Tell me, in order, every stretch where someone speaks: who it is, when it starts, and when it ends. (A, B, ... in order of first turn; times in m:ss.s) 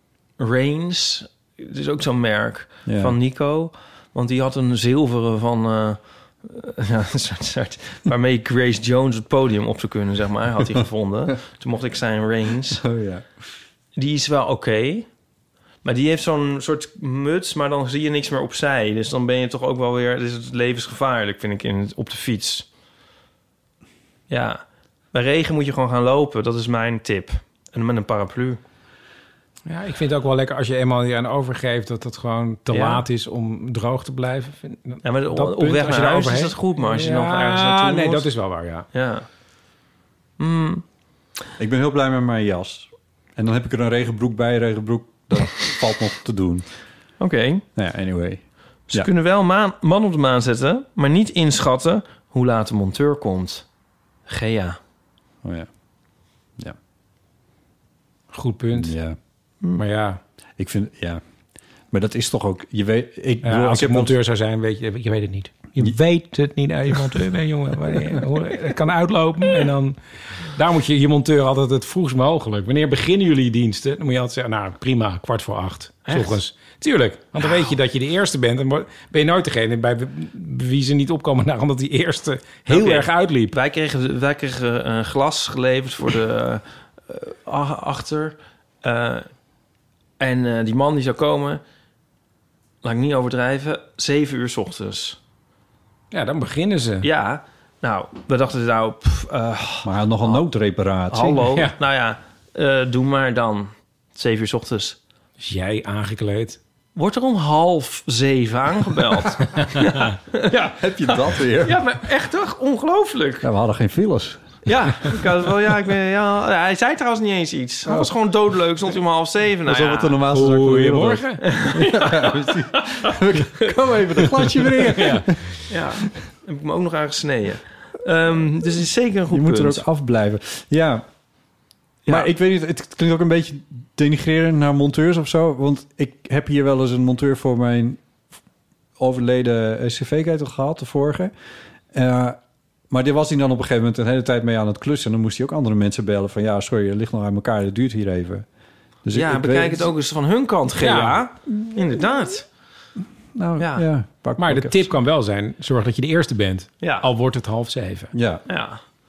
0:00.4-0:12.8 A
0:02.9-0:03.2 B
0:12.8-0:13.3 B
0:14.0-0:15.1 A
0:15.8-0:22.7 A
0:24.3-0:24.6 A
0:25.1-0:28.6 A
0:29.7-0:38.9 C
0:32.7-0:33.0 A
0:35.0-0:38.3 A
0:38.9-0:39.3 A
0:40.4-0:40.8 A
0:41.6-0:46.7 B
0:47.2-0:47.6 A
0:47.8-0:49.1 B
0:48.9-0:53.6 A
0:54.3-0:54.8 A
0:55.4-0:55.7 B
0:58.3-0:59.0 C
0:58.7-0:59.2 B
0:59.8-1:00.2 C
1:00.6-1:01.2 B
1:01.9-1:04.2 B
1:03.4-1:23.5 C
1:16.1-1:16.4 A
1:22.7-1:29.3 A
1:30.2-1:31.6 A
1:32.8-1:35.2 A
1:36.1-1:37.1 C
1:37.0-1:40.4 A
1:39.8-1:41.6 B
1:41.1-1:45.0 A
1:45.4-1:46.6 C
1:47.0-1:53.5 A
1:50.6-1:51.8 B
1:53.4-1:54.4 B
1:54.6-2:00.2 A
1:59.6-2:05.4 B
2:00.3-2:01.4 C
2:01.4-2:03.7 A
2:04.9-2:05.3 C
2:05.7-2:09.8 A
2:09.3-2:11.0 B
2:12.1-2:18.0 B
2:19.0-2:21.3 B
2:21.9-2:22.4 B
2:22.9-2:28.5 B
2:29.0-2:29.9 B
2:29.1-2:32.5 A
2:30.8-2:31.2 C
2:33.4-2:34.9 B
2:33.6-2:33.9 A
2:34.4-2:38.1 C
2:36.8-2:37.1 A
2:38.1-2:38.4 B
2:38.5-2:38.8 A